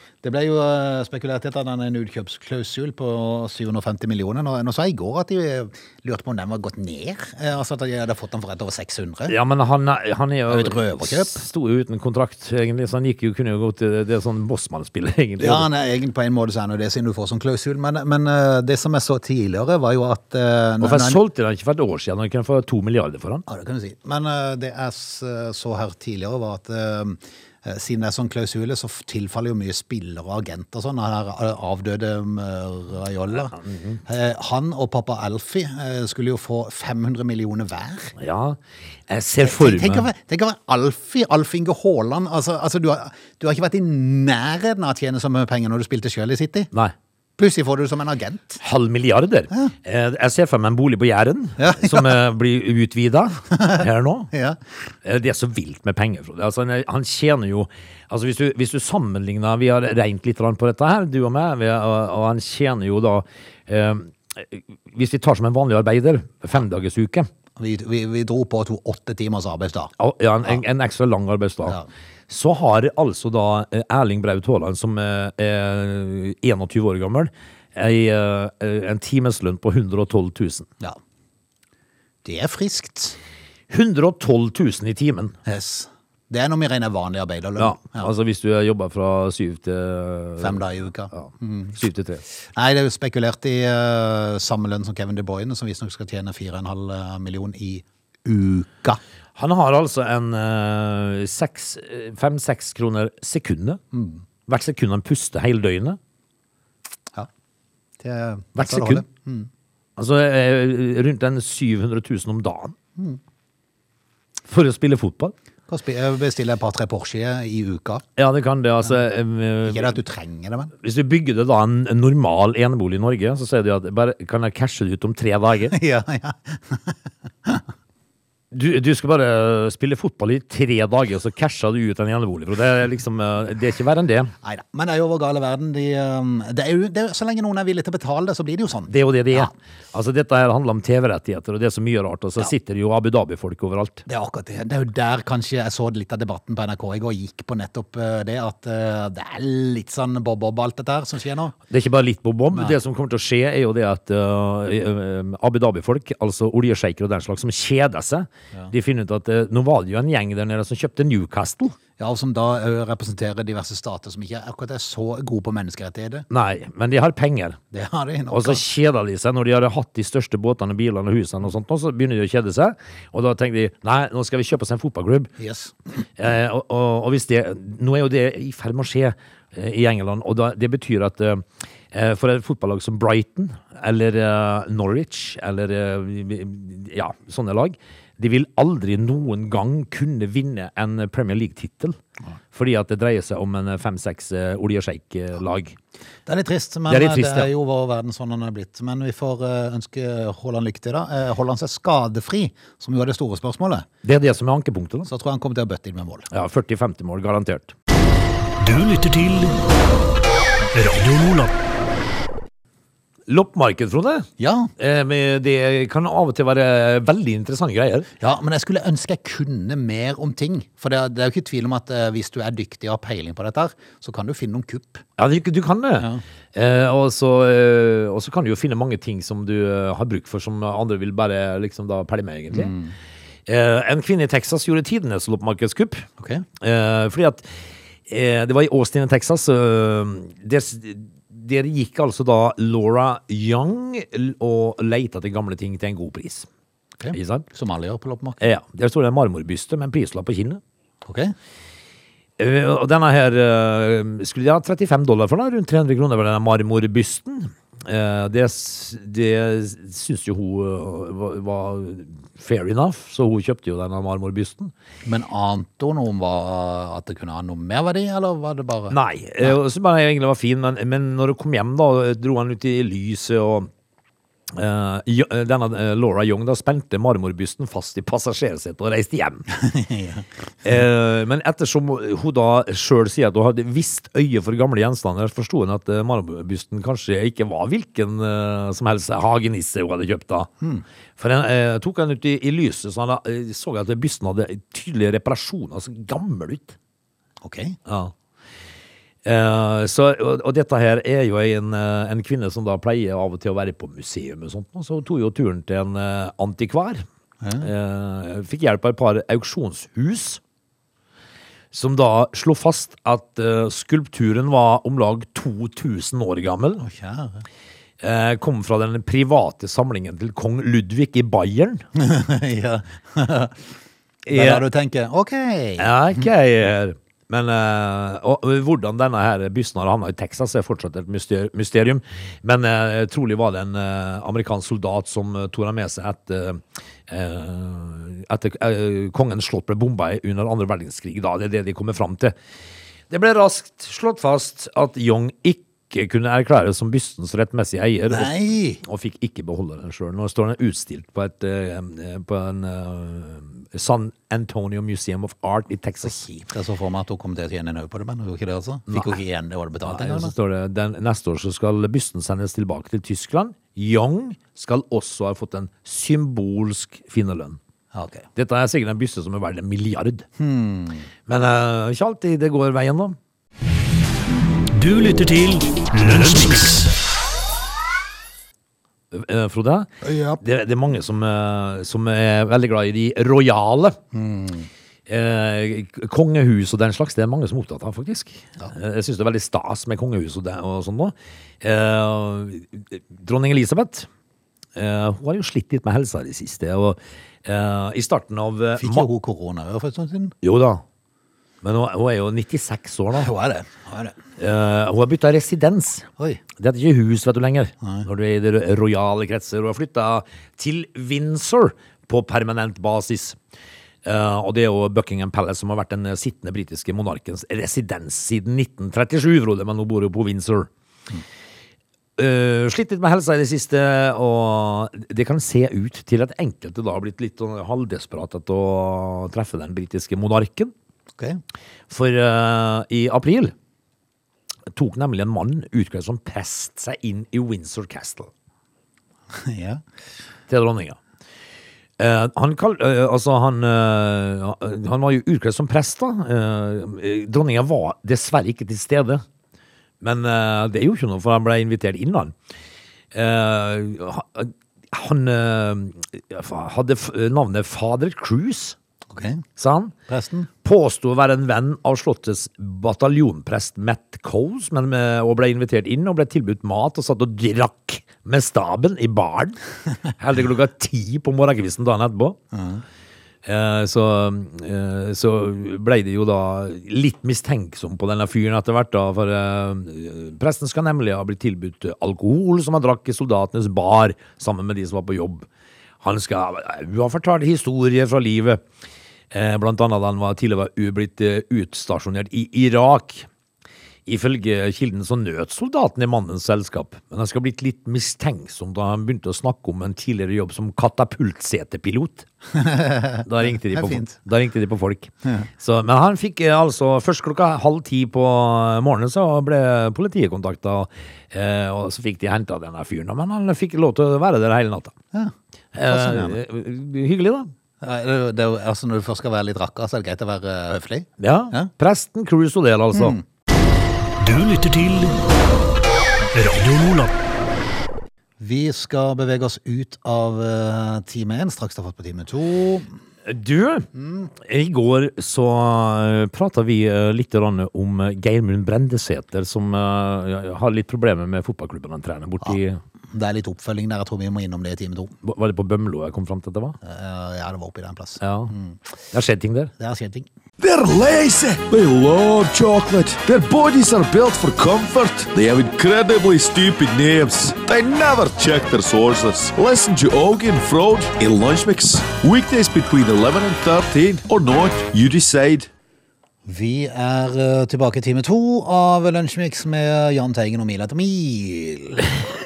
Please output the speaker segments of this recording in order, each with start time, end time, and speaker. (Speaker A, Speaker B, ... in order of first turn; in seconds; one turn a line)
Speaker A: 0.2-9.3
Speaker B: 9.3-15.7
Speaker A: 10.5-11.4
Speaker A: 15.4-21.2
Speaker B: 20.8-23.4
Speaker A: 23.5-38.1
Speaker B: 33.5-34.0
Speaker B: 38.2-40.1
Speaker A: 39.4-46.7
Speaker A: 47.4-48.6
Speaker B: 48.6-54.3
Speaker A: 51.6-52.2
Speaker A: 53.6-54.6
Speaker B: 55.0-67.3
Speaker A: 67.6-69.9
Speaker B: 70.0-80.7
Speaker A: 82.2-83.2
Speaker B: 83.7-85.3
Speaker A: 85.4-88.1
Speaker B: 87.6-92.2
Speaker A: 90.4-91.8
Speaker A: 92.5-99.0
Speaker B: 99.3-103.8
Speaker A: 103.9-104.2
Speaker B: 104.5-106.0
Speaker A: 108.0-109.5
Speaker B: 108.5-109.0
Speaker B: 110.0-112.8
Speaker B: 114.5-115.3
Speaker A: 115.7-118.0
Speaker B: 118.2-119.9
Speaker A: 119.6-120.7
Speaker B: 120.8-125.7
Speaker A: 125.7-127.7
Speaker B: 128.5-134.3
Speaker A: 134.4-139.5
Speaker B: 138.9-144.1
Speaker A: 144.1-151.5
Speaker B: 151.7-161.8
Speaker A: 162.0-166.3
Speaker B: 166.3-167.6
Speaker A: 167.7-168.6
Speaker B: 168.3-175.3
Speaker A: 175.4-175.7
Speaker B: 176.2-192.0
Speaker B: 192.5-195.8
Speaker A: 196.2-203.8
Speaker B: 196.9-197.5
Speaker B: 204.0-205.1
Speaker A: 205.0-206.3
Speaker B: 206.3-207.7
Speaker C: 208.6-209.7
Speaker C: 210.7-211.5
Speaker B: 213.3-214.3
Speaker A: 214.4-214.7
Speaker B: 214.8-218.1
Speaker A: 218.2-225.0
Speaker B: 225.2-232.7
Speaker A: 232.5-232.9
Speaker B: 233.4-236.1
Speaker A: 236.2-236.4
Speaker B: 236.6-237.4
Speaker B: 238.1-246.5
Speaker A: 247.0-248.4
Speaker B: 247.1-247.4
Speaker B: 248.4-250.6
Speaker A: 251.0-251.3
Speaker B: 252.4-264.7
Speaker A: 265.1-269.5
Speaker B: 268.9-273.7
Speaker B: 274.5-279.5
Speaker A: 279.5-280.3
Speaker B: 280.6-290.5
Speaker B: 291.2-296.8
Speaker A: 297.4-297.8
Speaker B: 297.9-298.1
Speaker B: 299.2-307.0
Speaker A: 307.4-307.7
Speaker B: 307.6-310.4
Speaker B: 311.7-316.8
Speaker A: 316.8-317.4
Speaker B: 318.0-321.8
Speaker A: 321.9-323.7
Speaker B: 324.2-324.6
Speaker A: 324.3-326.2
Speaker B: 325.8-342.3
Speaker B: 343.1-356.2
Speaker A: 348.1-348.8
Speaker A: 356.0-360.3
Speaker B: 358.9-359.2
Speaker B: 359.8-367.6
Speaker A: 367.9-368.3
Speaker B: 368.4-370.3
Speaker A: 370.4-371.1
Speaker B: 371.3-373.2
Speaker C: 374.7-376.9
Speaker B: 379.1-384.0
Speaker A: 380.0-380.4
Speaker A: 384.1-384.7
Speaker B: 385.1-394.1
Speaker B: 394.7-399.1
Speaker A: 398.8-400.3
Speaker B: 400.4-400.8
Speaker B: 401.6-403.3
Speaker A: 403.1-404.1
Speaker B: 404.4-413.4
Speaker B: 414.0-420.7
Speaker B: 422.2-430.7
Speaker B: 431.9-433.5
Speaker B: 434.7-438.3
Speaker A: 439.3-439.8
Speaker B: 440.5-441.0
Speaker B: 442.0-449.2
Speaker B: 450.0-452.3
Speaker B: 453.1-458.8
Speaker A: 459.1-459.4
Speaker B: 459.6-459.9
Speaker A: 460.1-460.5
Speaker B: 460.6-469.6
Speaker B: 470.2-472.4
Speaker A: 472.5-472.8
Speaker B: 473.4-485.5
Speaker B: 486.0-488.6
Speaker B: 489.3-493.3
Speaker B: 494.1-502.3
Speaker A: 502.5-504.1
Speaker B: 503.2-514.9
Speaker B: 515.7-517.5
Speaker A: 515.8-516.4
Speaker A: 517.8-521.7
Speaker B: 521.2-523.2
Speaker A: 522.9-523.2
Speaker C: 524.2-525.2
Speaker C: 526.3-527.1
Speaker A: 528.4-532.9
Speaker B: 533.2-542.8
Speaker A: 533.9-534.3
Speaker A: 543.1-545.1
Speaker B: 545.2-546.8
Speaker A: 546.8-548.8
Speaker B: 548.2-548.5
Speaker B: 549.1-549.7
Speaker A: 549.8-550.3
Speaker D: 550.6-565.7
Speaker A: 566.5-572.3